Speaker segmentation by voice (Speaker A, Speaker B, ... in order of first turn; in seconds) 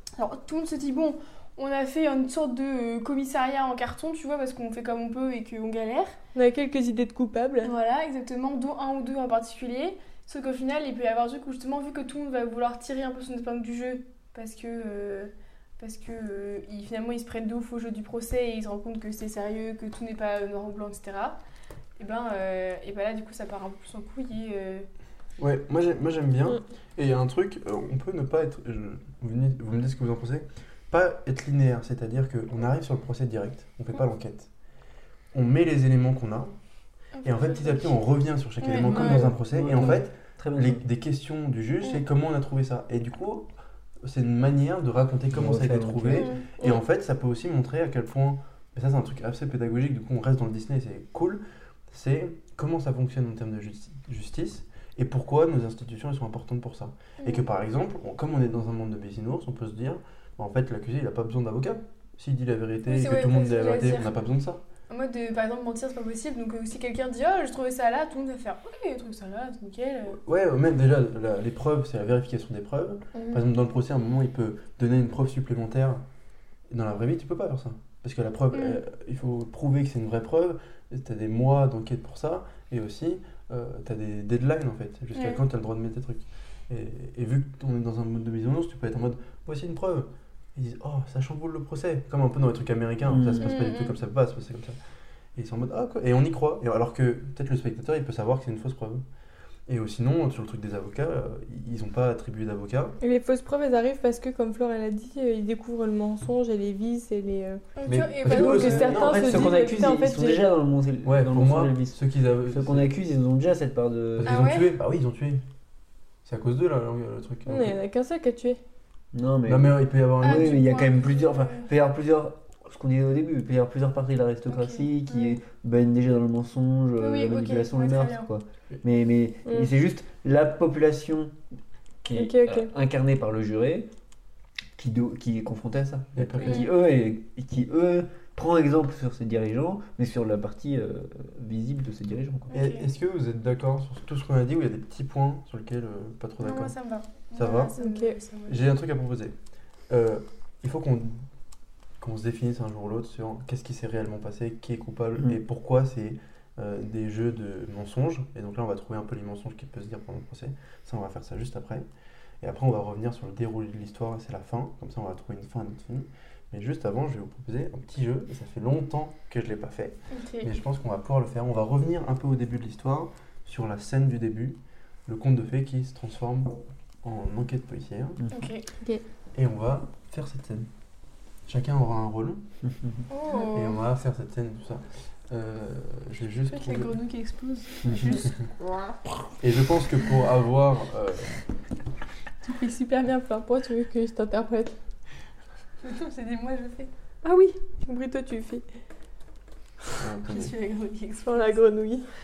Speaker A: 0.1-6.2, 7.6-21.4, 22.0-24.9, 37.1-39.3, 46.1-46.8, 57.2-57.5, 62.8-64.2, 64.9-70.2, 73.1-73.4, 78.5-78.8, 85.1-85.4, 93.3-94.0, 107.8-109.1, 114.2-114.7, 120.2-121.7, 124.5-125.4, 127.0-128.3, 136.4-136.7, 142.5-142.8, 146.4-148.7, 170.1-170.5, 178.3-178.6, 183.1-183.8, 186.5-189.0, 195.8-196.9, 200.3-201.6
Speaker B: 6.3-7.7, 103.0-107.6, 108.2-110.4, 117.5-118.6, 132.1-132.7, 147.8-148.2, 192.4-194.7, 197.2-198.6, 201.2-202.1
Speaker C: 25.4-34.5, 35.3-36.5, 37.2-43.5, 44.0-64.6, 70.1-76.0, 76.7-94.8, 95.3-99.0, 99.7-103.0, 107.9-109.5, 111.0-112.9, 114.2-115.4, 116.2-117.8, 119.5-120.6, 136.1-136.7, 142.5-146.7, 147.3-147.7, 148.5-149.3, 149.9-151.2, 152.0-161.8, 162.4-178.2, 179.3-180.7, 181.4-182.4, 183.4-186.9, 189.4-191.4, 199.9-200.5
Speaker D: 38.8-40.8, 45.3-46.3, 93.0-93.5, 108.4-114.5, 119.1-131.3, 132.0-133.9, 134.8-142.5, 178.2-178.5, 182.6-183.0, 187.8-188.2